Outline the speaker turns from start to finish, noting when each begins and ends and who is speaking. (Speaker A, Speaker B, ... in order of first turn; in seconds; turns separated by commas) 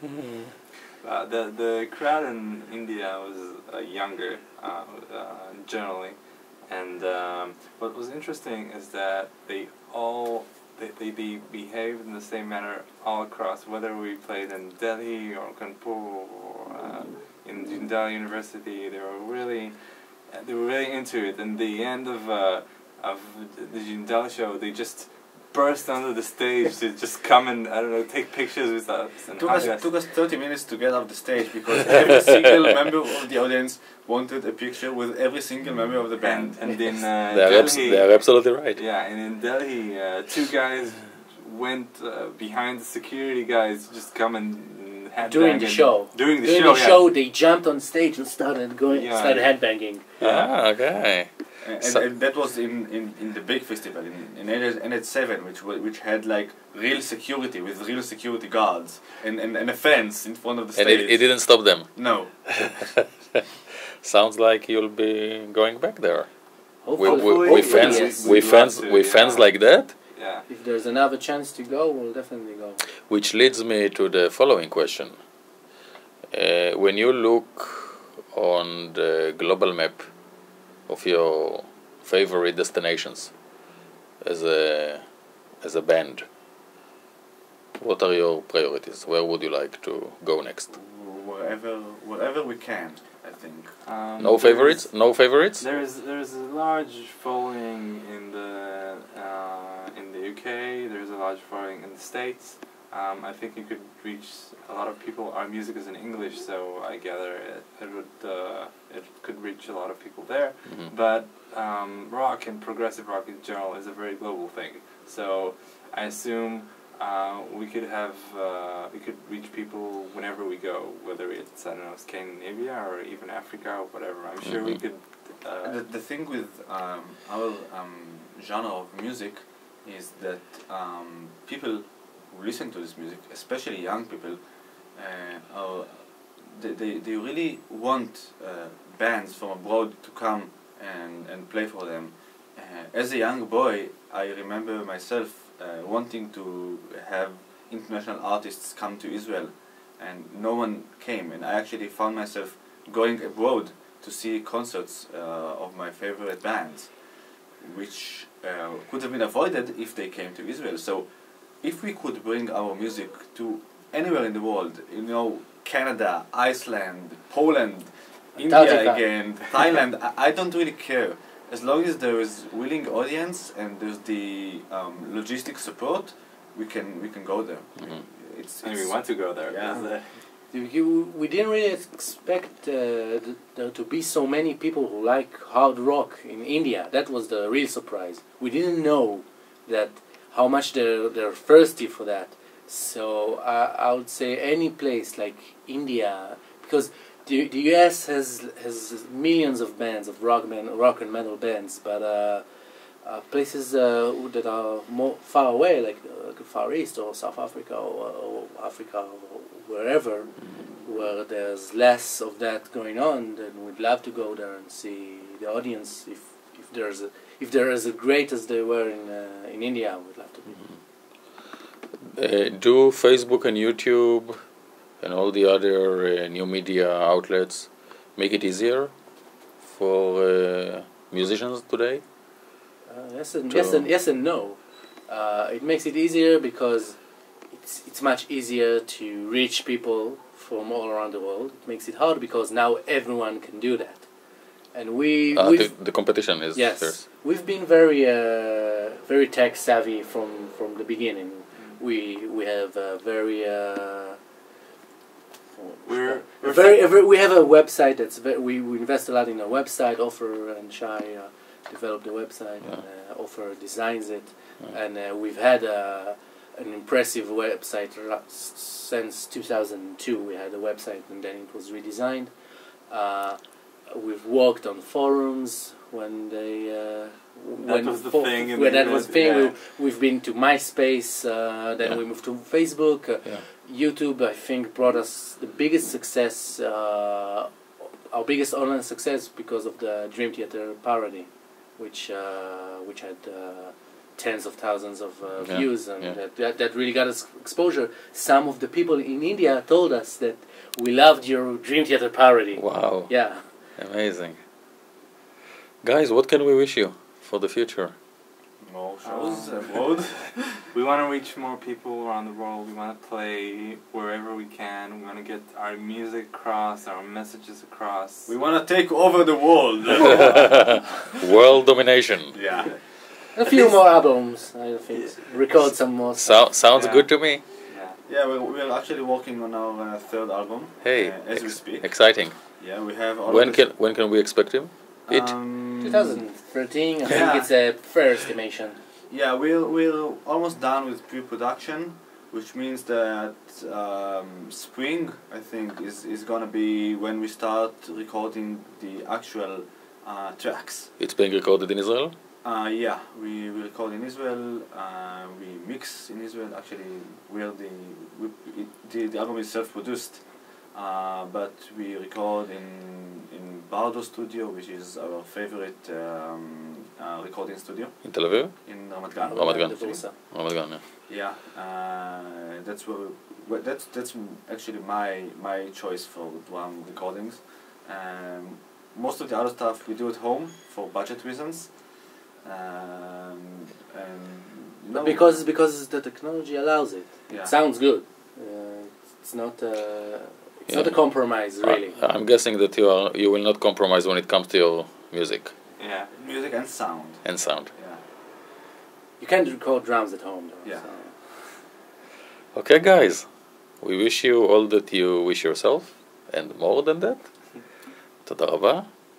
Speaker A: 1.0-30.0, Speaker B: 29.4-37.0, Speaker A: 36.2-47.1, Speaker C: 37.3-38.8, Speaker D: 45.2-50.2, Speaker A: 48.9-50.9, Speaker C: 50.2-52.0, Speaker B: 51.6-62.9, Speaker C: 60.7-62.2, Speaker C: 64.0-69.9, Speaker D: 66.8-68.5, Speaker A: 67.0-70.5, Speaker D: 70.5-72.8, Speaker C: 73.1-75.2, Speaker C: 76.3-80.1, Speaker C: 80.9-83.3, Speaker C: 84.2-85.0, Speaker C: 85.6-86.2, Speaker C: 87.8-90.7, Speaker B: 90.7-93.8, Speaker A: 93.8-125.8, Speaker C: 94.2-95.6, Speaker C: 110.6-110.9, Speaker C: 124.4-124.8, Speaker B: 125.6-157.0, Speaker B: 157.6-179.9, Speaker D: 168.3-169.4, Speaker A: 178.6-180.2, Speaker D: 180.5-220.7, Speaker C: 222.1-224.4, Speaker C: 225.0-228.9, Speaker C: 229.6-232.0, Speaker D: 232.8-244.1, Speaker C: 233.5-233.9, Speaker D: 244.7-254.2, Speaker C: 245.3-247.0, Speaker D: 255.6-272.3, Speaker A: 255.8-256.9, Speaker D: 272.9-303.5, Speaker A: 277.6-279.5, Speaker C: 295.4-296.2, Speaker C: 302.5-304.4, Speaker C: 305.8-307.9, Speaker B: 308.6-310.6, Speaker A: 309.0-309.9, Speaker A: 310.7-318.3, Speaker B: 318.3-320.9, Speaker C: 321.2-322.4, Speaker B: 322.3-323.1, Speaker D: 323.3-326.6, Speaker A: 324.9-325.4, Speaker C: 326.1-327.4, Speaker A: 326.7-328.0, Speaker B: 328.0-333.7, Speaker C: 330.8-332.5, Speaker C: 333.2-335.6, Speaker B: 335.1-336.2, Speaker D: 335.8-338.8, Speaker B: 337.0-337.7, Speaker B: 339.1-350.9, Speaker C: 351.0-352.1, Speaker B: 352.4-370.0, Speaker C: 368.0-370.8, Speaker D: 369.2-370.1, Speaker B: 370.7-385.4, Speaker D: 384.9-392.0, Speaker B: 387.3-387.7, Speaker C: 390.7-395.5, Speaker A: 395.8-396.1, Speaker B: 396.1-397.2, Speaker C: 397.2-397.7, Speaker D: 399.2-401.6, Speaker C: 402.5-407.6, Speaker C: 408.2-408.9